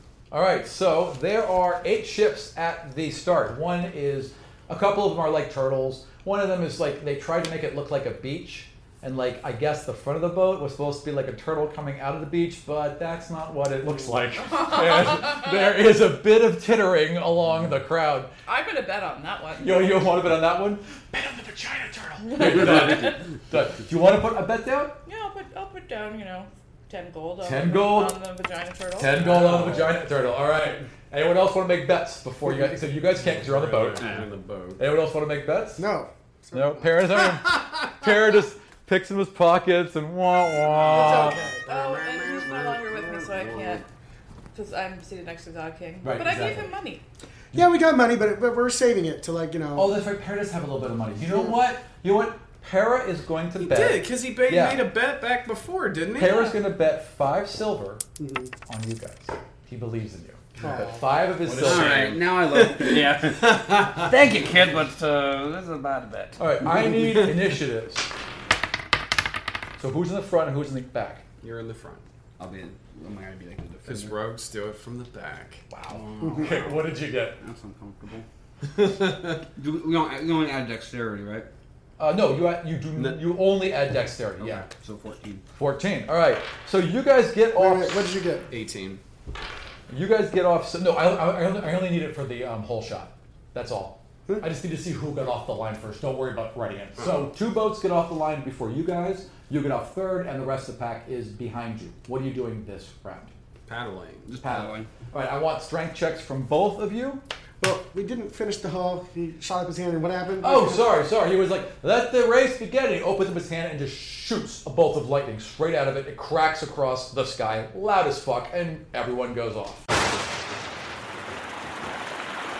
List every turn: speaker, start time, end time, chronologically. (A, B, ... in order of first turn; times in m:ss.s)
0:00.3-0:18.3 A
0:14.6-0:15.3 B
0:18.5-0:19.9 B
0:19.6-0:25.0 A
0:22.3-0:23.1 B
0:25.0-0:29.2 B
0:27.4-0:28.2 A
0:29.0-0:34.1 A
0:29.2-0:30.0 C
0:33.1-0:34.8 C
0:34.0-0:34.3 D
0:34.8-0:35.9 A
0:35.8-0:37.2 E
0:36.5-0:41.4 A
0:40.6-0:43.8 C
0:40.9-0:41.6 E
0:41.6-0:43.8 B
0:44.5-0:47.0 B
0:46.0-0:46.7 A
0:47.5-0:50.0 E
0:49.7-0:54.9 A
0:51.2-0:51.6 E
0:53.6-0:56.4 C
0:56.2-0:58.0 A
0:58.2-0:58.5 E
0:58.7-1:02.2 A
1:00.6-1:04.1 C
1:00.6-1:01.0 E
1:01.6-1:06.4 D
1:06.4-1:08.1 A
1:09.8-1:11.2 A
1:11.4-1:12.0 C
1:12.4-1:14.1 D
1:13.8-1:16.8 C
1:15.7-1:17.4 A
1:15.9-1:16.5 D
1:17.4-1:18.2 D
1:18.6-1:19.4 C
1:19.6-1:21.5 D
1:22.0-1:24.6 A
1:22.9-1:23.2 C
1:24.4-1:25.4 D
1:25.5-1:28.1 A
1:27.5-1:28.5 E
1:28.5-1:29.0 C
1:29.9-1:43.3 A
1:37.0-1:37.3 C
1:43.7-1:44.3 C
1:44.2-1:44.9 D
1:44.4-1:47.2 A
1:47.6-1:50.9 E
1:50.4-1:59.8 A